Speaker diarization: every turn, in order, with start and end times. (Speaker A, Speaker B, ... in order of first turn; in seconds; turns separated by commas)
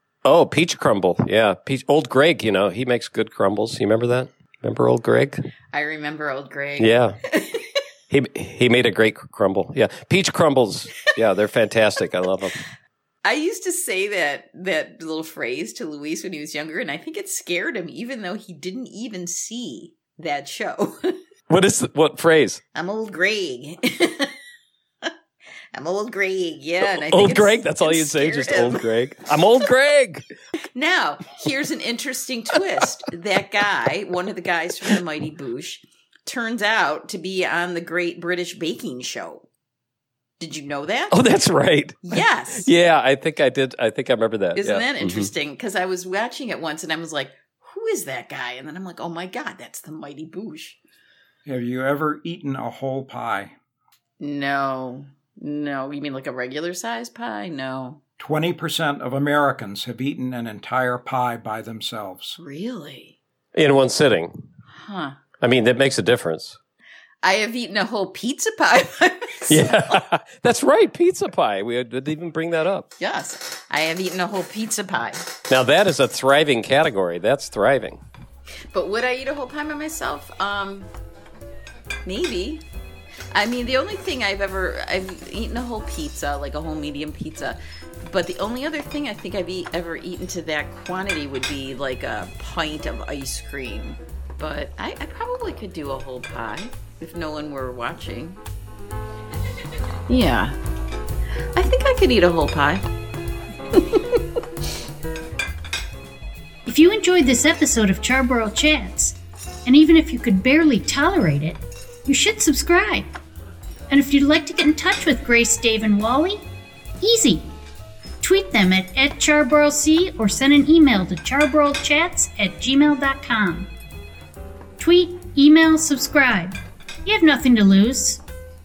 Speaker A: 0.2-5.4, Speaker B: 5.7-7.8, Speaker A: 6.8-7.2, Speaker A: 8.1-12.6, Speaker B: 13.2-21.2, Speaker A: 21.5-22.6, Speaker B: 22.7-24.3, Speaker B: 25.7-29.3, Speaker A: 27.0-30.2, Speaker B: 30.7-39.5, Speaker B: 40.4-41.1, Speaker A: 41.1-45.3, Speaker B: 42.0-42.7, Speaker B: 44.5-50.8, Speaker C: 51.4-53.5, Speaker B: 54.2-58.0, Speaker C: 58.2-62.4, Speaker B: 62.4-63.2, Speaker A: 63.5-64.4, Speaker B: 64.7-65.2, Speaker A: 65.4-66.6, Speaker B: 67.2-70.0, Speaker A: 69.5-72.9, Speaker B: 73.0-75.3, Speaker A: 75.5-78.0, Speaker B: 78.7-80.9, Speaker B: 82.0-82.6, Speaker B: 83.3-98.4, Speaker B: 100.1-100.6, Speaker B: 101.5-102.8, Speaker B: 103.7-104.2, Speaker D: 106.7-113.1, Speaker D: 113.9-116.4, Speaker D: 117.0-117.5, Speaker D: 118.2-123.7, Speaker D: 124.8-128.2